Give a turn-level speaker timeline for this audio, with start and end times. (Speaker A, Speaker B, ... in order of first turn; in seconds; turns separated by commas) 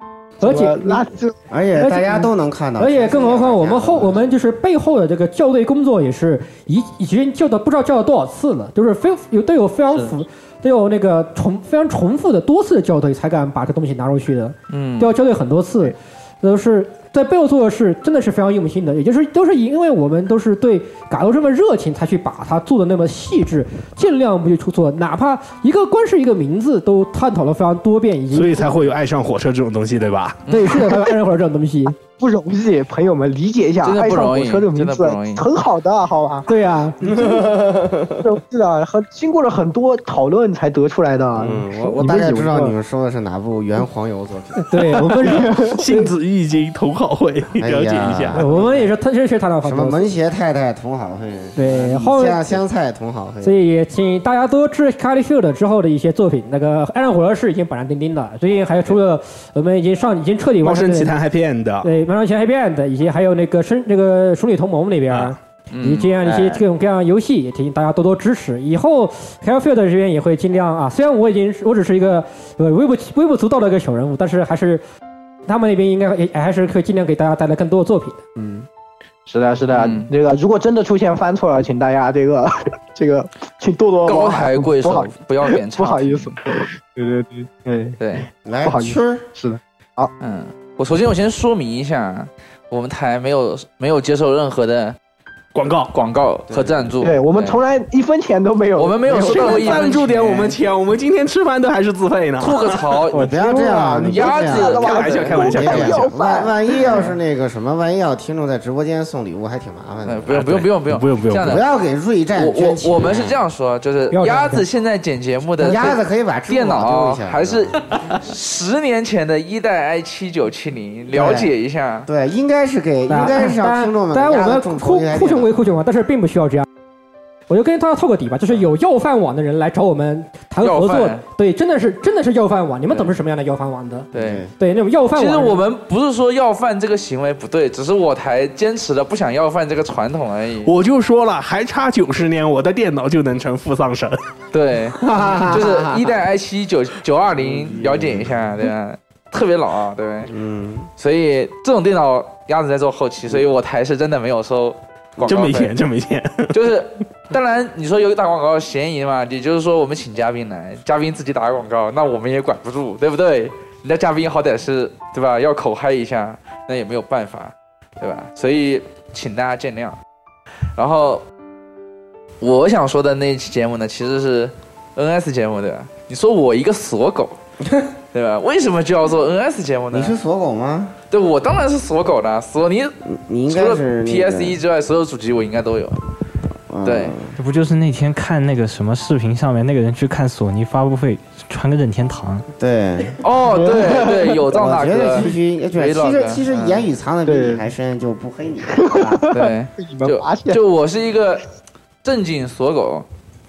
Speaker A: 0.4-1.4, Speaker B: 0.4-1.0, Speaker C: 1.5-4.2, Speaker B: 1.8-28.6, Speaker D: 14.7-15.1, Speaker E: 28.3-30.4, Speaker D: 30.5-30.8, Speaker B: 30.5-31.9, Speaker A: 32.2-36.5, Speaker D: 33.8-35.5, Speaker B: 36.5-37.0, Speaker A: 37.0-42.7, Speaker C: 37.2-38.0, Speaker C: 41.4-44.6, Speaker B: 44.6-45.5, Speaker A: 45.2-46.0, Speaker E: 45.7-48.4, Speaker C: 47.6-48.9, Speaker B: 48.3-50.0, Speaker C: 49.6-53.6, Speaker B: 51.5-52.6, Speaker B: 53.4-61.1, Speaker E: 60.6-61.9, Speaker B: 61.8-74.8, Speaker E: 65.1-65.3, Speaker D: 65.7-66.1, Speaker B: 75.5-78.4, Speaker A: 79.2-88.0, Speaker D: 79.7-80.1, Speaker D: 84.0-86.4, Speaker D: 88.0-88.3, Speaker C: 88.4-89.2, Speaker A: 88.6-90.1, Speaker D: 90.2-95.0, Speaker E: 95.5-95.9, Speaker D: 95.9-97.6, Speaker C: 96.5-96.9, Speaker A: 97.0-99.9, Speaker D: 98.8-100.6, Speaker E: 99.1-103.0, Speaker D: 102.4-103.3, Speaker C: 103.1-104.8, Speaker A: 103.2-106.8, Speaker D: 104.0-105.4, Speaker E: 104.7-106.0, Speaker C: 105.5-110.6, Speaker D: 106.8-107.1, Speaker D: 110.0-111.6, Speaker E: 110.8-111.6, Speaker C: 111.4-113.4, Speaker D: 112.3-122.1, Speaker B: 114.1-114.6, Speaker C: 115.6-117.8, Speaker C: 121.1-121.5, Speaker C: 122.0-125.5, Speaker B: 123.1-126.7, Speaker B: 127.5-135.6, Speaker D: 130.6-131.2, Speaker D: 134.1-134.4, Speaker C: 134.1-134.5, Speaker D: 135.2-140.7, Speaker E: 140.6-144.2, Speaker D: 144.5-150.3, Speaker C: 145.0-146.1, Speaker C: 147.4-148.4, Speaker C: 150.3-150.9, Speaker D: 151.0-155.7, Speaker E: 155.2-156.6, Speaker D: 156.5-170.0, Speaker D: 170.8-171.2, Speaker D: 172.4-177.4, Speaker D: 178.1-180.1, Speaker C: 179.9-180.9, Speaker D: 181.1-182.9, Speaker C: 183.1-184.6, Speaker D: 183.5-186.0, Speaker C: 186.7-187.3, Speaker D: 186.8-187.2, Speaker F: 187.4-192.5, Speaker C: 192.6-199.2, Speaker D: 193.2-196.8, Speaker A: 197.3-197.6, Speaker A: 198.7-200.6, Speaker D: 199.3-201.4, Speaker D: 202.0-203.1